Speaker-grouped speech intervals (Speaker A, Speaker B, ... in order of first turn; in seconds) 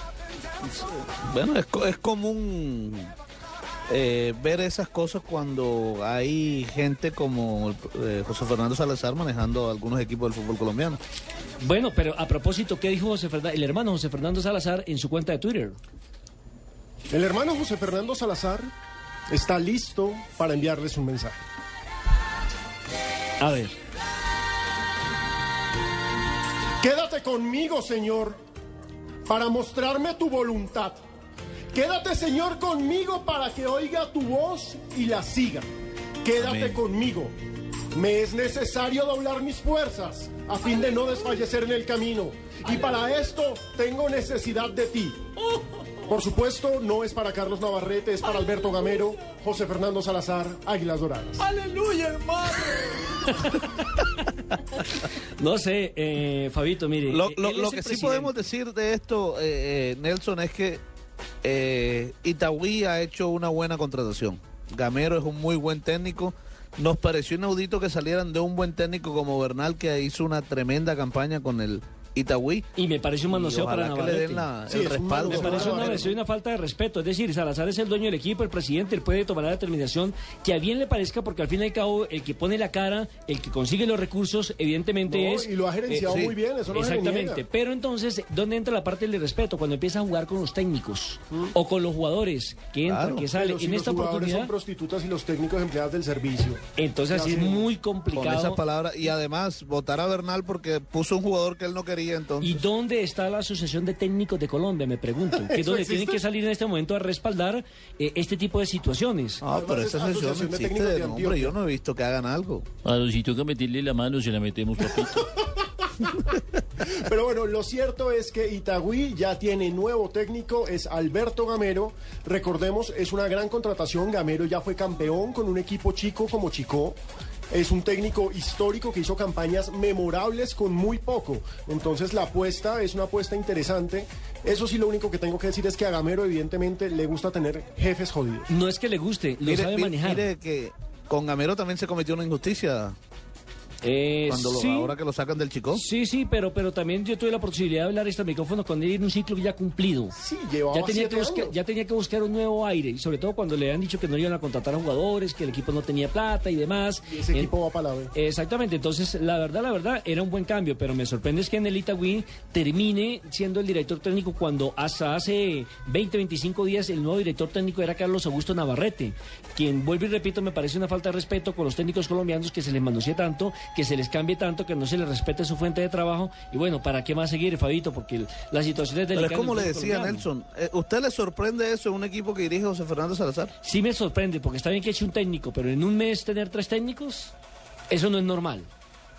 Speaker A: 0.7-3.1, 3.9-11.0, 36.4-36.8, 57.1-60.8, 61.4-72.7, 73.3-76.1, 86.1-86.3, 92.8-93.3, 98.1-102.6, 109.4-112.7, 139.4-142.9, 144.3-145.8, 179.1-183.5
Speaker B: 11.6-15.8, 23.4-23.7, 53.3-54.0, 54.8-58.5, 72.8-74.5, 75.2-94.5, 96.8-98.6, 102.4-109.4, 138.5-140.3, 143.8-144.9, 145.7-150.2, 150.7-157.5, 158.1-180.3, 183.6-187.3, 187.9-188.7
Speaker C: 17.1-18.7, 19.3-21.4, 26.8-28.4, 29.3-31.0, 31.7-35.6, 36.2-37.3, 37.9-45.2, 46.0-51.5, 74.7-76.1, 85.1-87.4, 93.3-96.6, 97.1-97.7, 105.4-106.2, 109.5-111.5, 115.0-115.2, 116.8-127.0, 127.5-138.5, 150.2-151.5, 157.1-158.1
Speaker D: 51.5-52.9, 112.8-115.2